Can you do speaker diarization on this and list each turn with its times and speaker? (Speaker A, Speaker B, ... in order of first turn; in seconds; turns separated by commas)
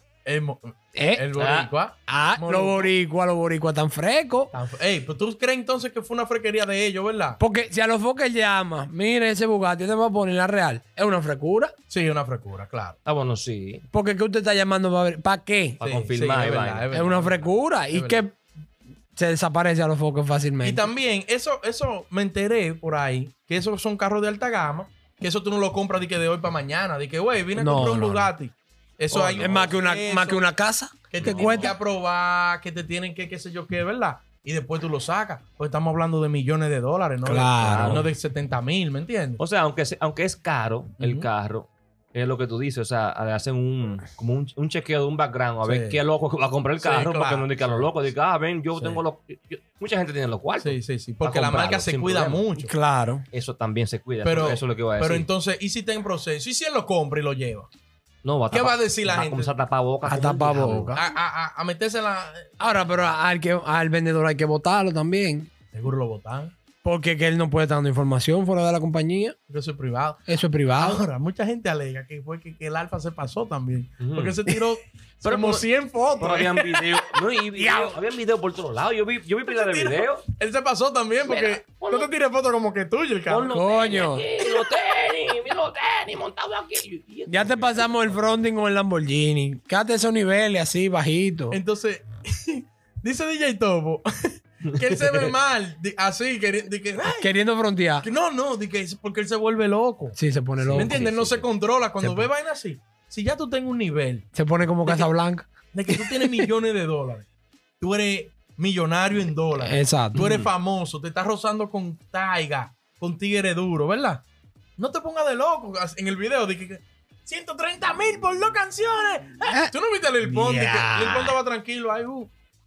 Speaker A: 0.2-2.9, Speaker B: 0.9-1.2, Speaker C: 1.4-1.7, Speaker B: 2.1-4.5, Speaker A: 4.5-7.4, Speaker B: 7.4-11.7, Speaker A: 11.9-13.0, Speaker C: 13.0-13.8, Speaker B: 13.9-15.8, Speaker C: 15.8-16.9, Speaker A: 15.8-18.2, Speaker B: 16.9-18.4, Speaker B: 19.1-20.9, Speaker A: 20.6-30.5, Speaker B: 27.6-28.3, Speaker C: 29.1-29.7, Speaker B: 29.4-31.7, Speaker A: 31.1-39.4, Speaker C: 31.2-31.7, Speaker B: 37.2-38.1, Speaker C: 37.6-38.1, Speaker C: 39.4-52.4, Speaker A: 41.0-41.3, Speaker A: 45.6-46.0, Speaker A: 46.8-47.7, Speaker A: 48.7-49.0, Speaker A: 50.6-52.7, Speaker B: 52.6-53.2, Speaker C: 53.3-55.3, Speaker A: 54.2-57.7, Speaker C: 58.2-60.9, Speaker A: 58.5-59.5, Speaker B: 60.0-61.0, Speaker A: 60.9-62.5, Speaker B: 62.6-65.5, Speaker A: 65.7-66.5, Speaker B: 66.8-69.3, Speaker A: 69.5-70.2, Speaker B: 70.3-71.0, Speaker A: 70.8-77.0, Speaker C: 74.0-74.3, Speaker C: 75.2-75.7, Speaker C: 76.2-80.2, Speaker B: 77.5-78.0, Speaker A: 79.5-83.5, Speaker C: 81.2-82.1, Speaker C: 83.3-88.4, Speaker B: 83.5-84.3, Speaker B: 87.3-91.6, Speaker A: 91.5-94.1, Speaker A: 94.7-97.3, Speaker C: 94.9-95.2, Speaker B: 97.2-98.1, Speaker A: 98.0-100.2, Speaker B: 100.2-101.0, Speaker C: 100.6-101.5, Speaker A: 100.7-104.2, Speaker B: 102.0-102.3, Speaker B: 104.3-105.9, Speaker A: 105.7-107.3, Speaker A: 107.8-114.2, Speaker B: 109.6-110.3, Speaker A: 114.8-122.3, Speaker B: 120.2-121.4